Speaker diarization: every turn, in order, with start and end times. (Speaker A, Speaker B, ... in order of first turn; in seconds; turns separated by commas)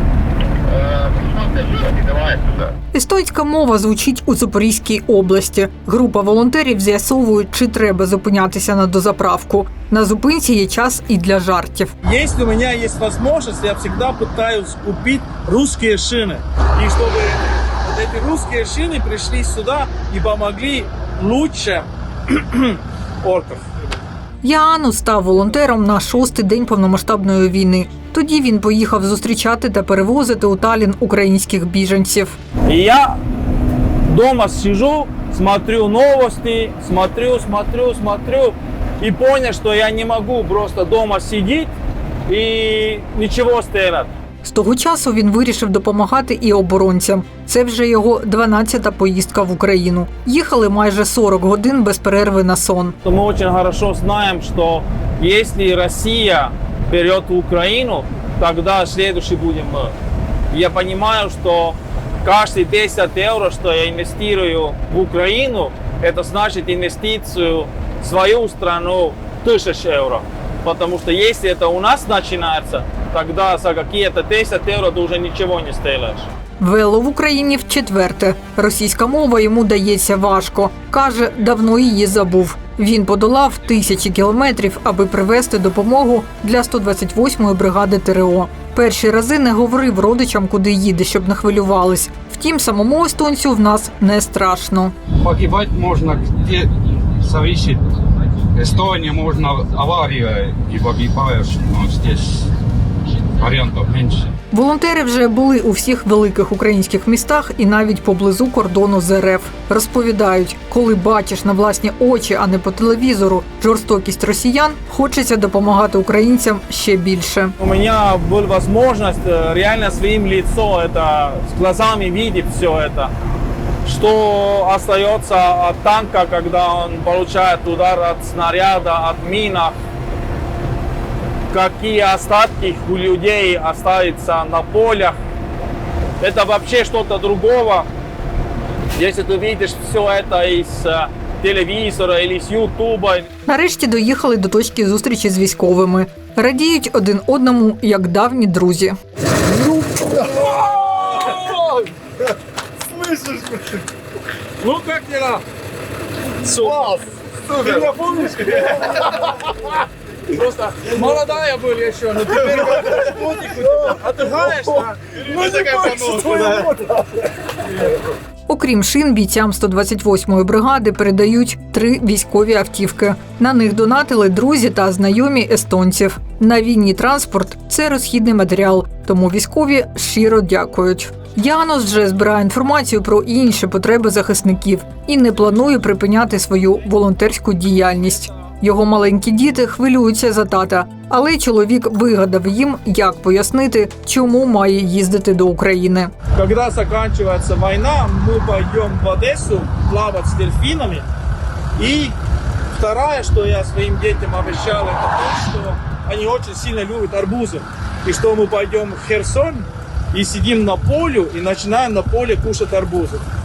Speaker A: 0.7-2.6, Speaker B: 2.9-11.9, Speaker C: 12.0-23.7, Speaker B: 24.4-32.4, Speaker A: 32.7-33.2, Speaker A: 34.1-41.7, Speaker A: 42.3-44.1, Speaker B: 44.4-53.0, Speaker A: 53.0-59.9, Speaker A: 60.5-76.3, Speaker B: 76.6-94.9, Speaker D: 95.1-98.0, Speaker D: 98.5-102.5, Speaker D: 103.4-104.3, Speaker B: 104.5-117.5, Speaker A: 117.6-123.1, Speaker A: 123.8-129.8, Speaker A: 131.5-135.2, Speaker A: 136.2-137.9, Speaker A: 139.0-143.3, Speaker B: 143.5-149.0, Speaker C: 149.5-151.8, Speaker C: 152.9-153.8, Speaker C: 154.6-155.4, Speaker C: 156.4-159.7, Speaker C: 160.3-167.0, Speaker B: 168.5-196.1, Speaker C: 196.3-201.1, Speaker C: 201.8-202.2, Speaker C: 202.7-213.2